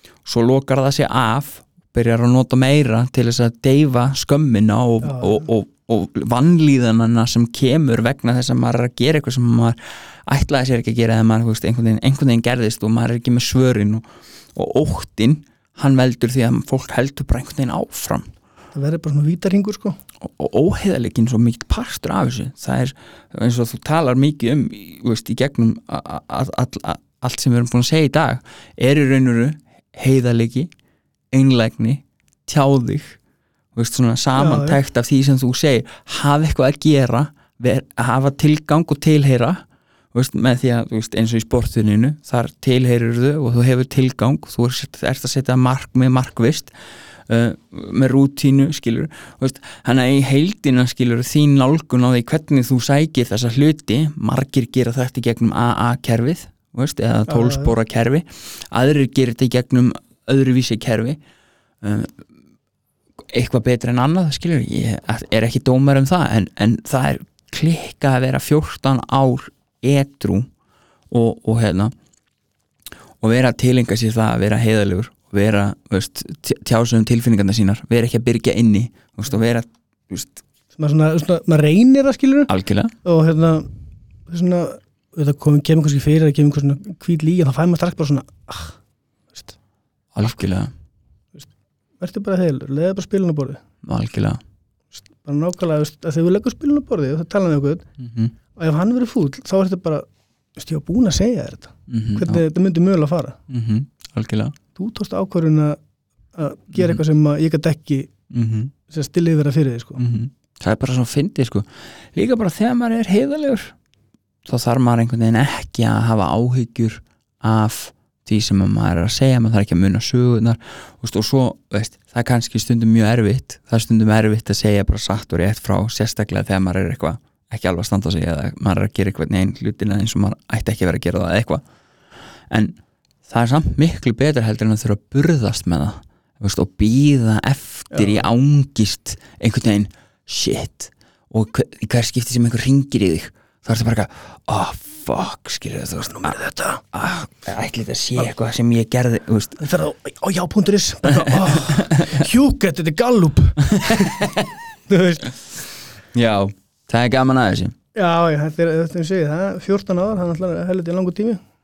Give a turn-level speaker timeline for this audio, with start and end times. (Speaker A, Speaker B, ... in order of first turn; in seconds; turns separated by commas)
Speaker A: 0.2-18.3, Speaker B: 5.0-5.5, Speaker B: 18.7-20.0, Speaker A: 20.2-30.7, Speaker A: 31.3-33.2, Speaker A: 33.8-46.7, Speaker B: 34.4-34.8, Speaker A: 47.3-61.2, Speaker B: 57.3-57.8, Speaker A: 61.8-62.2, Speaker A: 63.3-70.5, Speaker A: 71.1-71.9, Speaker A: 73.2-80.4, Speaker B: 80.7-82.5, Speaker A: 82.5-82.9, Speaker B: 83.0-83.7, Speaker B: 84.3-88.8, Speaker A: 90.1-90.7, Speaker B: 92.0-93.6, Speaker A: 93.8-94.4, Speaker B: 95.0-97.9, Speaker A: 98.0-98.3, Speaker B: 98.5-103.4, Speaker A: 101.9-102.4, Speaker A: 103.5-104.6, Speaker B: 104.8-105.8, Speaker B: 106.3-108.1, Speaker A: 106.7-107.0, Speaker A: 108.3-108.7, Speaker B: 108.9-110.0, Speaker A: 110.0-113.7, Speaker A: 114.5-131.6, Speaker A: 132.5-146.4, Speaker B: 137.9-138.2, Speaker B: 146.1-146.8, Speaker A: 146.9-149.6, Speaker B: 149.6-154.3, Speaker A: 151.1-152.2, Speaker A: 153.7-154.5, Speaker B: 154.9-155.3, Speaker A: 156.1-157.8, Speaker B: 157.9-161.4